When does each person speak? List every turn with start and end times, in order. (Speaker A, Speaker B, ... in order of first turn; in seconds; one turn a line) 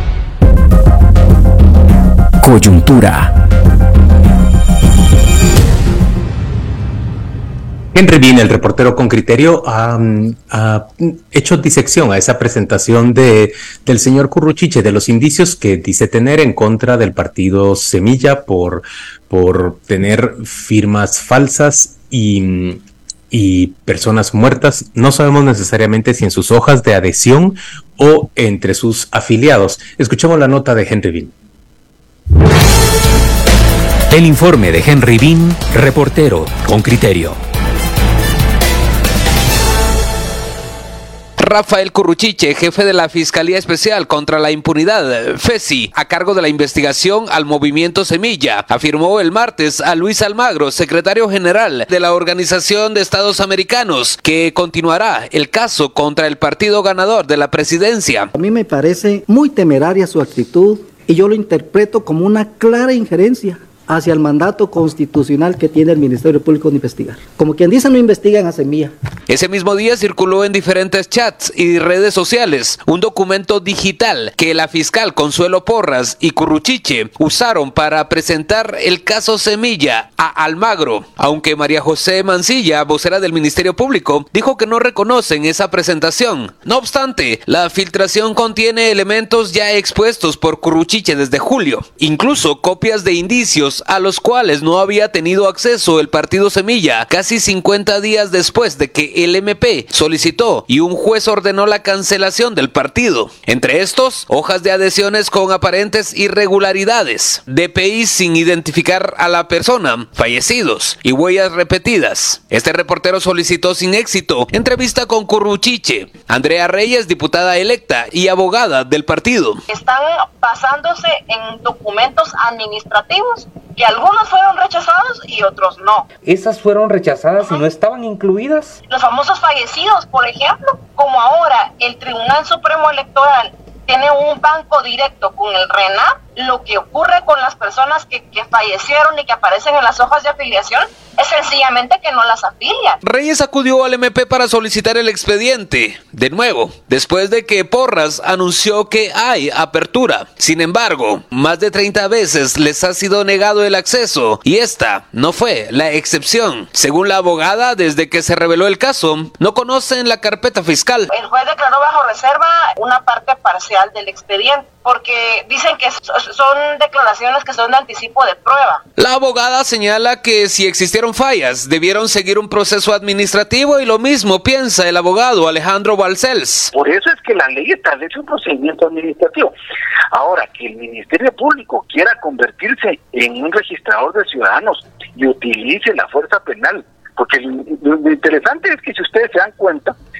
Speaker A: 2.4-3.3
Speaker B: 7.9-31.3
Speaker A: 34.1-37.4
Speaker C: 41.4-58.3
Speaker D: 58.3-68.9
Speaker C: 69.3-119.6
Speaker E: 119.7-126.1
Speaker F: 126.2-128.8
Speaker E: 127.4-127.7
Speaker E: 128.9-143.0
Speaker C: 143.0-161.1
Speaker E: 161.1-168.8
Speaker C: 169.0-176.7
Speaker G: 176.7-179.5
Speaker G: 180.1-189.9